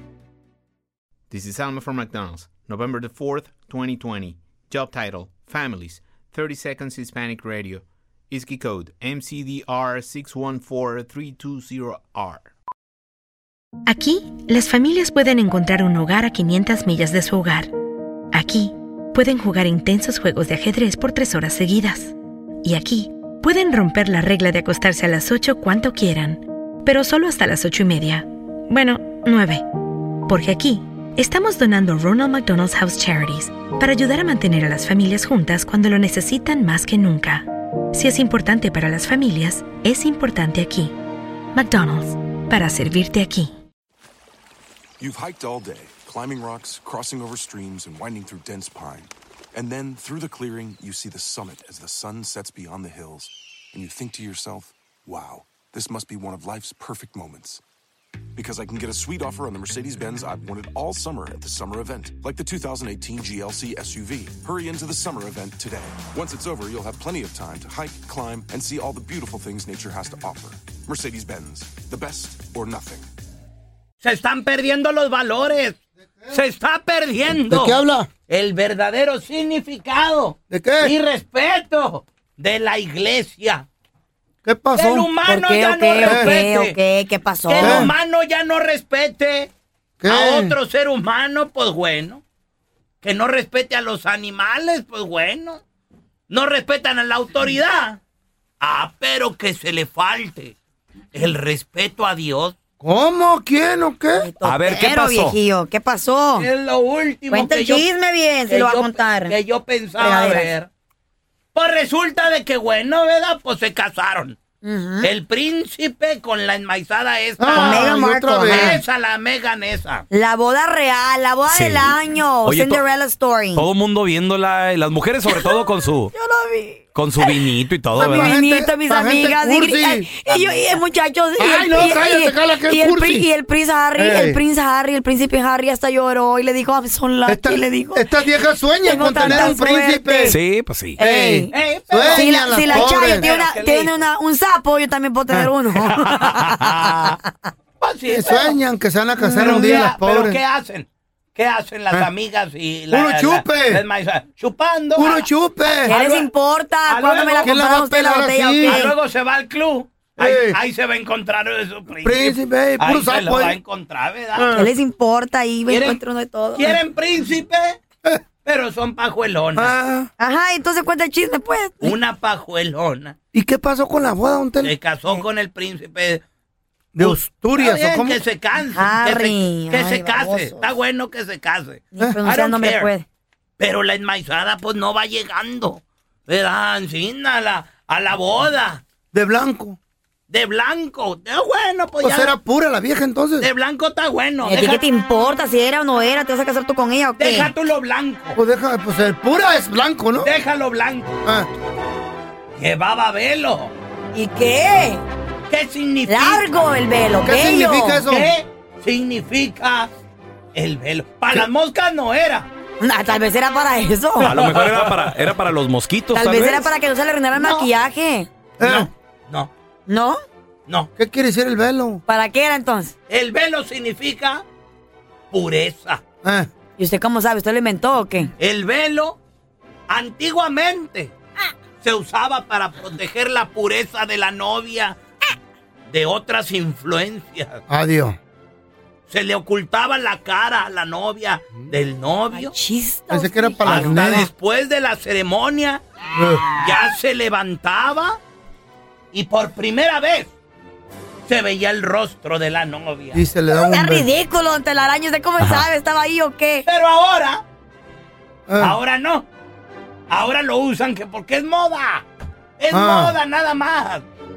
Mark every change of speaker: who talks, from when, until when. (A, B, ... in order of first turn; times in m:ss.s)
0:01.3-0:12.5 A
0:13.9-0:17.7 B
0:18.3-0:29.6 B
0:30.3-0:41.0 B
0:41.5-0:43.5 B
0:45.0-0:57.6 C
0:58.4-1:13.1 C
1:14.0-1:15.8 D
1:16.0-1:16.4 E
1:16.3-1:23.7 D
1:17.5-1:18.1 E
1:20.5-1:21.0 E
1:24.4-1:25.2 E
1:24.8-1:26.8 D
1:25.2-1:27.9 F
1:26.0-1:26.3 E
1:27.5-1:29.5 D
1:27.6-1:27.9 E
1:30.0-1:30.6 E
1:30.1-1:32.2 D
1:33.0-1:35.6 D
1:36.3-1:38.0 D
1:38.6-1:40.6 D
1:41.1-1:42.6 D
1:42.8-1:44.3 E
1:44.1-1:46.5 F
1:44.4-1:45.4 G
1:46.4-1:47.9 D
1:47.3-1:49.4 F
1:48.5-1:50.7 D
1:50.0-1:50.5 F
1:51.5-1:54.4 D
1:54.6-1:55.1 F
1:55.0-2:00.1 D
1:57.4-1:58.8 E
1:57.5-1:58.8 F
2:00.1-2:03.7 F
2:01.5-2:02.8 G
2:03.5-2:06.1 G
2:05.2-2:18.1 F
2:06.9-2:08.4 G
2:08.0-2:10.1 E
2:10.3-2:10.6 G
2:11.4-2:13.3 E
2:14.0-2:14.4 E
2:17.3-2:20.4 E
2:18.8-2:20.4 F
2:20.3-2:21.0 G
2:21.0-2:21.6 F
2:21.0-2:23.3 E
2:21.5-2:24.0 D
2:22.1-2:27.2 F
2:25.8-2:27.1 D
2:27.8-2:28.6 D
2:28.1-2:30.4 E
2:29.3-2:35.3 D
2:32.9-2:33.8 E
2:34.9-2:36.0 E
2:35.8-2:39.0 F
2:35.9-2:36.3 D
2:36.9-2:37.6 D
2:37.4-2:38.8 E
2:38.6-2:44.5 D
2:40.2-2:40.6 E
2:42.0-2:43.6 E
2:44.3-2:44.7 E
2:44.5-2:46.7 F
2:45.7-2:46.0 D
2:46.6-2:47.8 D
2:48.4-2:49.7 D
2:49.6-2:50.1 E
2:50.2-2:52.0 F
2:51.8-2:53.2 D
2:53.3-2:54.8 E
2:54.6-2:56.2 D
2:56.9-2:58.2 E
2:57.0-3:02.9 D
2:58.7-3:00.6 F
3:01.9-3:03.0 F
3:03.6-3:08.8 D
3:09.1-3:09.8 E
3:10.3-3:12.4 D
3:12.0-3:13.5 E
3:13.4-3:14.8 D
3:14.4-3:17.5 F
3:17.2-3:18.4 D
3:18.4-3:20.3 E
3:20.2-3:21.1 D
3:21.2-3:21.5 E
3:22.6-3:23.7 D
3:24.1-3:25.0 F
3:25.5-3:26.6 D
3:26.1-3:28.0 F
3:27.2-3:28.4 E
3:28.0-3:29.9 D
3:30.6-3:32.5 D
3:32.8-3:34.4 F
3:34.2-3:35.3 D
3:34.2-3:36.7 G
3:36.1-3:38.3 F
3:37.4-3:37.7 D
3:38.6-3:38.9 E
3:38.6-3:39.5 D
3:39.9-3:40.2 F
3:41.0-3:42.0 E
3:42.1-3:42.9 F
3:43.1-3:44.4 D
3:45.3-3:46.0 D
3:46.2-3:46.5 E
3:46.8-3:48.3 F
3:48.4-3:49.2 D
3:49.9-3:51.1 D
3:51.8-3:55.0 D
3:55.9-3:57.6 D
3:57.7-3:58.2 E
3:59.1-4:02.5 D
4:02.3-4:04.3 F
4:03.1-4:04.3 E
4:03.6-4:05.8 D
4:06.1-4:06.4 E
4:06.6-4:08.2 D
4:09.1-4:10.3 D
4:11.3-4:13.2 D
4:13.1-4:14.1 E
4:13.5-4:16.7 F
4:16.7-4:17.4 D
4:18.5-4:18.8 E
4:18.6-4:19.3 D
4:20.1-4:22.0 D
4:22.6-4:24.1 D
4:22.7-4:23.2 E